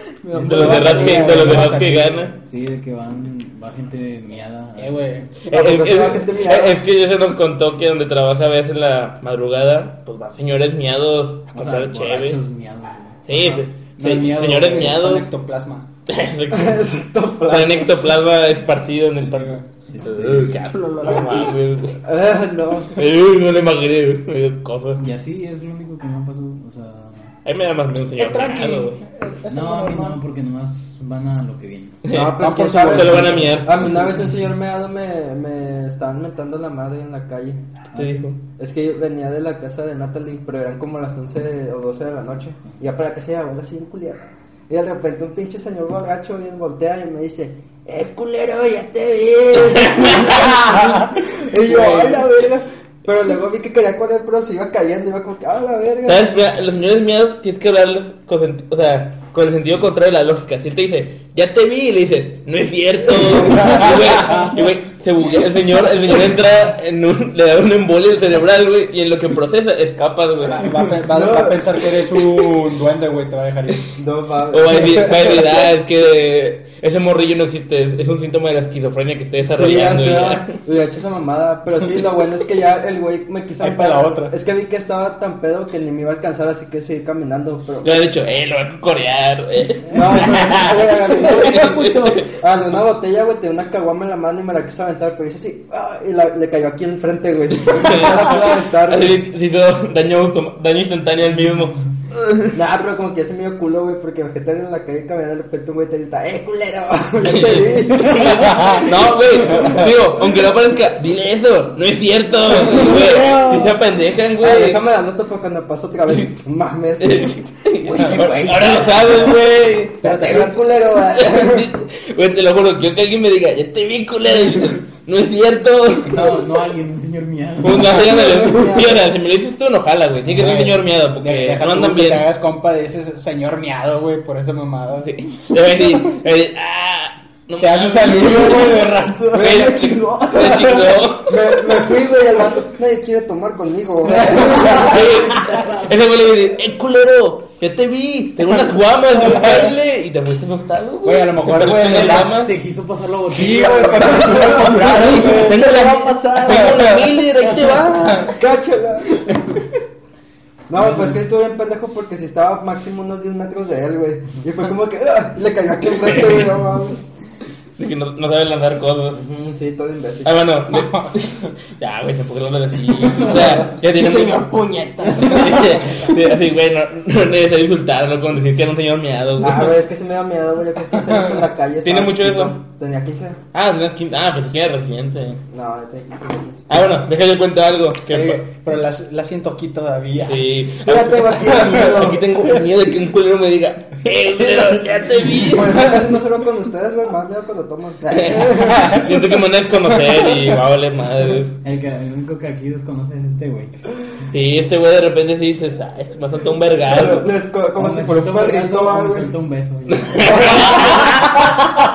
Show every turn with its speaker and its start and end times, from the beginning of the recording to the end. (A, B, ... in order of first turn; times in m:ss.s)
0:00.3-0:02.3 A
0:00.3-0:05.3 B
0:00.4-0:01.3 C
0:00.4-0:02.3 D
0:04.8-0:05.3 A
0:05.4-0:12.4 D
0:05.5-0:06.8 E
0:11.5-0:13.3 B
0:13.3-0:15.3 D
0:14.0-0:15.9 A
0:16.1-0:16.8 D
0:16.5-0:18.1 E
0:17.5-0:22.0 D
0:19.3-0:19.6 A
0:19.9-0:20.6 B
0:20.6-0:21.5 C
0:22.0-0:23.0 E
0:22.9-0:25.0 D
0:25.0-0:27.3 B
0:27.4-0:29.0 D
0:28.2-0:30.2 A
0:29.5-0:32.0 B
0:32.0-0:33.9 D
0:32.1-0:37.6 E
0:32.4-0:33.6 A
0:33.8-0:34.4 B
0:37.9-0:38.4 D
0:37.9-0:38.3 B
0:38.6-0:56.3 E
0:49.8-0:50.4 D
0:56.0-1:10.9 D
1:03.2-1:03.9 E
1:03.4-1:04.5 A
1:10.5-1:13.9 A
1:11.0-1:11.8 E
1:14.0-1:15.7 E
1:14.5-1:20.6 D
1:19.4-1:28.2 E
1:23.6-1:24.4 A
1:27.8-1:32.3 D
1:29.9-1:39.2 E
1:31.4-1:32.3 C
1:37.6-1:42.5 D
1:42.5-1:50.2 E
1:47.2-1:54.8 D
1:48.1-1:48.9 A
1:52.6-1:53.8 C
1:54.4-1:59.1 E
1:57.0-2:06.4 D
2:00.0-2:01.7 E
2:06.0-2:08.2 B
2:07.6-2:12.2 D
2:08.0-2:09.0 E
2:10.3-2:15.1 A
2:15.0-2:21.5 D
2:17.6-2:19.6 A
2:19.4-2:19.9 E
2:19.4-2:20.9 C
2:21.2-2:25.1 E
2:24.2-2:32.5 D
2:29.2-2:29.7 A
2:31.0-2:32.4 A
2:32.0-2:34.5 B
2:33.3-2:37.1 A
2:34.1-2:34.8 E
2:34.2-2:38.4 D
2:34.6-2:37.8 C
2:38.0-2:38.3 A
2:38.3-2:39.3 E
2:39.3-2:39.6 D
2:40.7-2:47.0 E
2:40.8-2:41.2 B
2:46.0-2:46.6 D
2:47.8-2:49.2 D
2:49.1-2:50.4 E
2:50.2-2:54.5 D
2:50.7-2:51.1 A
2:53.0-2:56.1 C
2:55.1-2:59.8 D
2:59.4-3:03.4 E
3:01.8-3:02.6 D
3:03.5-3:05.4 D
3:05.5-3:06.6 E
3:06.7-3:08.4 D
3:08.1-3:10.5 A
3:10.2-3:16.1 D
3:10.8-3:12.4 E
3:15.4-3:19.1 E
3:18.0-3:21.6 D
3:18.7-3:19.0 A
3:21.6-3:23.8 B
3:24.3-3:27.3 D
3:26.9-3:29.3 E
3:27.8-3:30.8 B
3:29.9-3:31.5 D